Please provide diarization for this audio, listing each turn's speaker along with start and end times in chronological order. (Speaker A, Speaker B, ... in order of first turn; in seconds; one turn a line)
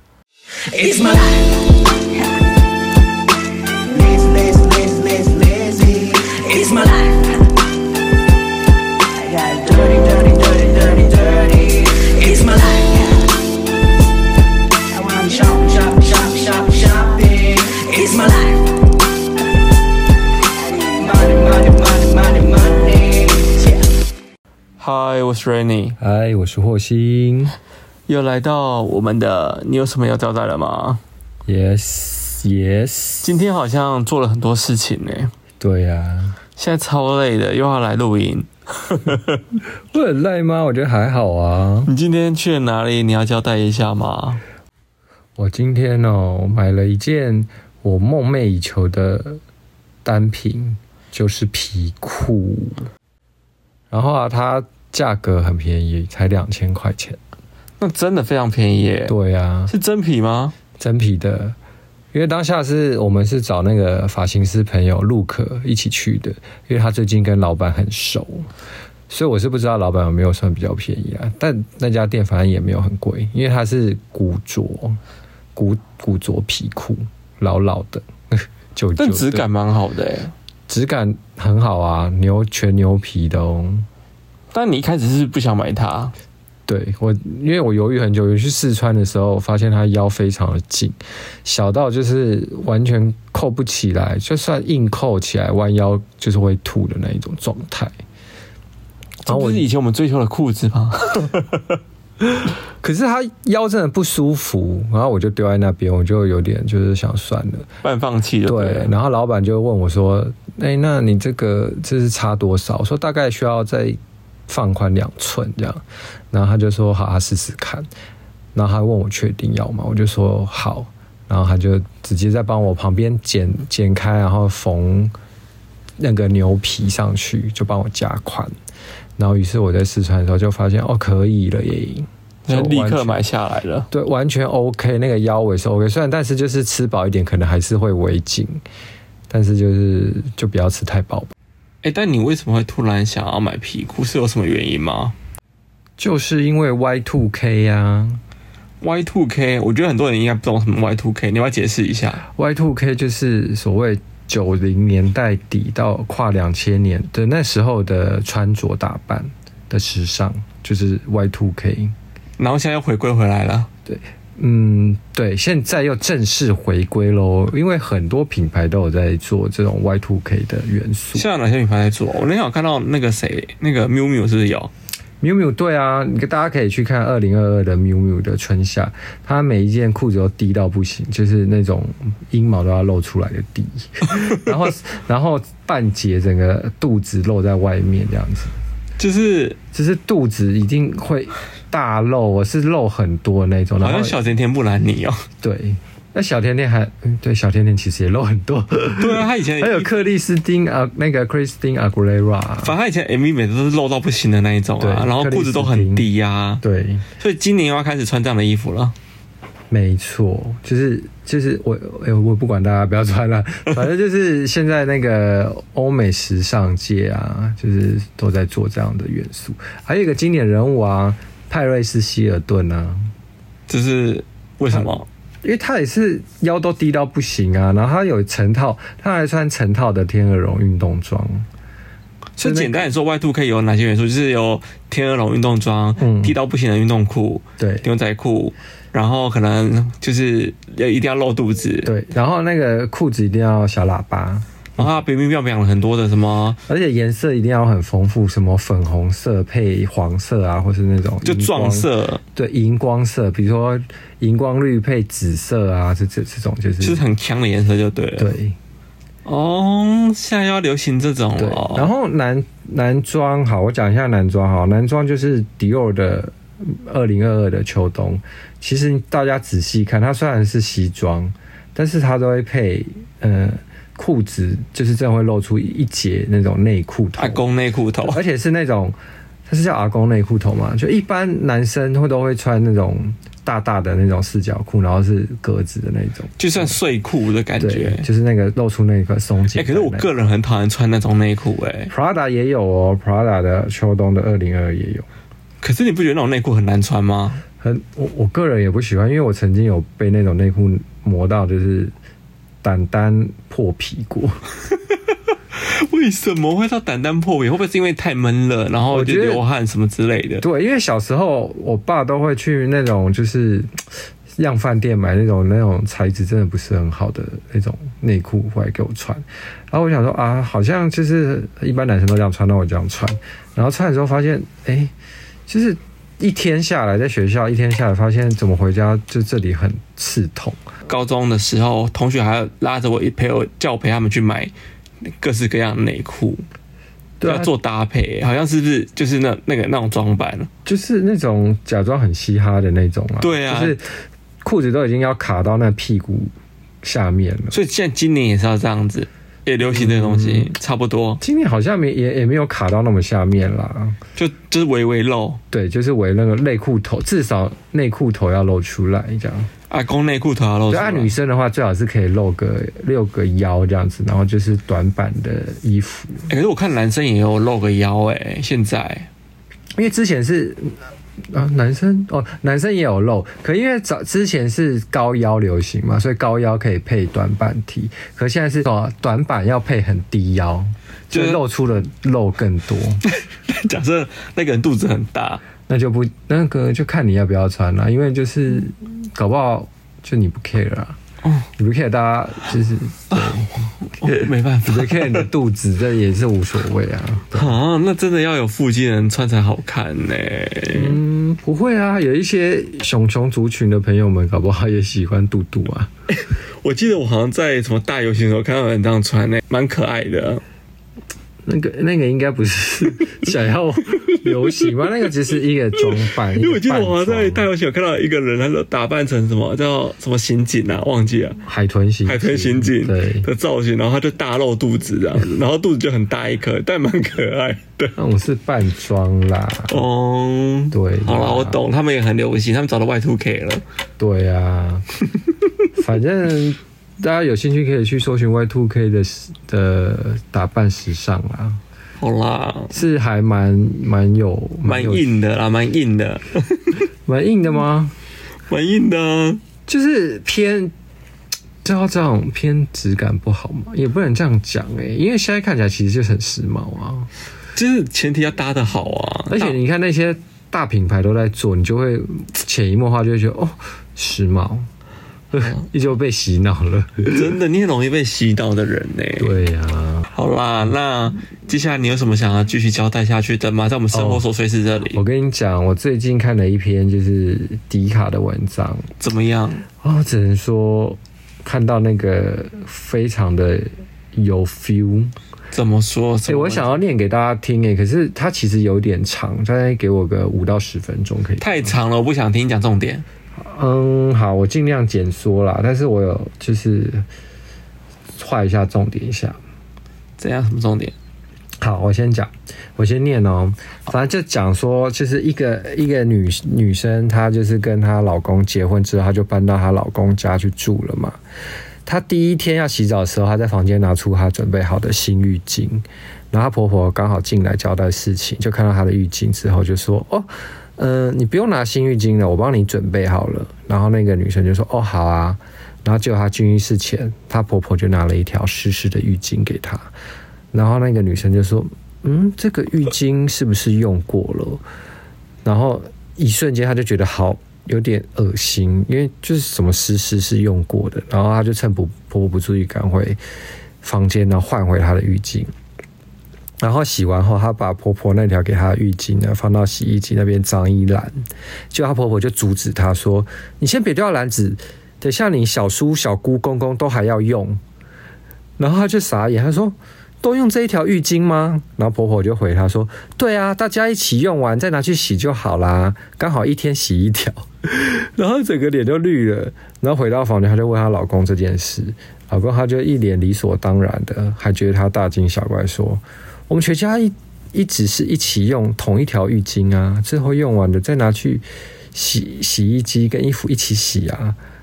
Speaker A: 0.6-2.3
Speaker A: 3.9-7.5
Speaker A: 9.2-13.4
Speaker A: 14.9-18.8
Speaker A: 20.6-23.9
Speaker B: 24.8-26.0
Speaker C: 26.0-27.6
Speaker B: 28.1-31.0
Speaker C: 31.5-33.3
Speaker B: 33.2-35.3
Speaker C: 35.6-36.4
Speaker B: 36.6-39.4
Speaker C: 39.9-41.9
Speaker B: 41.9-44.4
Speaker C: 45.4-49.4
Speaker C: 50.0-52.9
Speaker C: 53.9-57.2
Speaker B: 57.8-59.1
Speaker C: 59.1-59.7
Speaker B: 59.7-60.5
Speaker C: 60.8-61.6
Speaker C: 62.1-68.5
Speaker C: 69.1-75.0
Speaker C: 75.5-79.5
Speaker B: 79.0-80.3
Speaker C: 80.7-83.9
Speaker B: 84.5-86.1
Speaker C: 86.7-97.9
Speaker B: 99.2-101.8
Speaker C: 99.3-99.7
Speaker C: 102.2-107.7
Speaker B: 107.8-108.9
Speaker C: 108.5-117.9
Speaker C: 118.5-125.2
Speaker C: 126.0-128.5
Speaker C: 129.2-133.2
Speaker B: 132.5-133.9
Speaker C: 133.9-138.6
Speaker C: 139.3-141.3
Speaker B: 141.8-145.2
Speaker C: 146.0-148.2
Speaker B: 148.8-152.2
Speaker C: 152.2-161.9
Speaker B: 162.4-163.7
Speaker C: 163.9-171.3
Speaker B: 171.2-174.7
Speaker C: 175.2-188.6
Speaker B: 189.0-189.6
Speaker C: 189.7-194.2
Speaker B: 193.8-195.2
Speaker C: 195.4-202.8
Speaker B: 199.0-199.9
Speaker B: 202.6-206.6
Speaker C: 204.8-206.1
Speaker C: 206.6-207.1
Speaker B: 207.2-208.9
Speaker C: 209.7-223.1
Speaker B: 223.7-225.1
Speaker C: 224.7-231.5
Speaker B: 232.4-241.9
Speaker C: 232.4-232.8
Speaker C: 236.0-236.3
Speaker C: 237.6-237.8
Speaker C: 241.8-244.9
Speaker B: 244.8-246.6
Speaker C: 246.7-257.1
Speaker B: 251.2-252.2
Speaker B: 256.8-258.3
Speaker C: 258.2-258.6
Speaker B: 259.2-261.9
Speaker C: 261.4-277.4
Speaker B: 277.2-278.2
Speaker C: 278.0-279.0
Speaker C: 279.5-286.8
Speaker B: 286.4-288.1
Speaker C: 287.6-290.1
Speaker B: 289.6-291.9
Speaker C: 291.9-295.1
Speaker B: 295.6-297.4
Speaker C: 297.6-301.9
Speaker C: 302.6-304.4
Speaker B: 305.5-310.4
Speaker C: 308.9-309.4
Speaker C: 310.4-313.8
Speaker C: 314.4-324.9
Speaker C: 325.5-330.6
Speaker B: 330.9-334.5
Speaker B: 335.1-336.4
Speaker C: 337.2-337.5
Speaker B: 337.2-340.5
Speaker C: 340.6-343.9
Speaker B: 343.2-343.8
Speaker C: 344.4-347.6
Speaker B: 347.5-351.2
Speaker C: 349.6-350.5
Speaker C: 351.2-354.0
Speaker B: 354.2-355.4
Speaker C: 355.5-359.5
Speaker B: 359.7-361.1
Speaker C: 360.7-366.3
Speaker B: 366.3-369.1
Speaker C: 369.8-383.0
Speaker B: 381.1-381.4
Speaker B: 383.1-385.4
Speaker C: 385.7-391.0
Speaker C: 391.6-397.5
Speaker B: 393.9-395.3
Speaker B: 397.3-401.0
Speaker C: 400.7-405.9
Speaker B: 406.1-410.4
Speaker C: 411.4-417.5
Speaker B: 413.9-414.8
Speaker B: 415.8-421.4
Speaker C: 421.4-423.3
Speaker B: 422.1-427.9
Speaker C: 428.0-429.8
Speaker B: 429.7-433.6
Speaker C: 430.7-431.6
Speaker C: 434.0-434.9
Speaker C: 435.8-441.6
Speaker B: 442.0-442.7
Speaker C: 442.7-445.1
Speaker B: 444.6-446.8
Speaker C: 447.1-447.9
Speaker B: 448.5-449.4
Speaker C: 449.7-450.7
Speaker C: 451.6-457.1
Speaker B: 457.6-459.6
Speaker C: 459.3-464.7
Speaker C: 465.3-467.4
Speaker B: 465.4-465.7
Speaker B: 467.1-469.3
Speaker C: 469.2-470.1
Speaker B: 470.1-475.0
Speaker C: 473.9-474.2
Speaker C: 474.9-478.9
Speaker B: 479.0-479.6
Speaker C: 479.8-485.1
Speaker B: 485.5-486.8
Speaker C: 486.3-491.7
Speaker B: 491.4-493.1
Speaker C: 493.4-497.1
Speaker C: 498.2-499.4
Speaker B: 500.2-500.9
Speaker C: 501.6-511.2
Speaker C: 511.9-529.9
Speaker C: 530.5-534.6
Speaker C: 535.4-543.2
Speaker C: 543.8-545.5
Speaker C: 546.6-551.2
Speaker C: 551.7-557.6
Speaker C: 558.6-584.4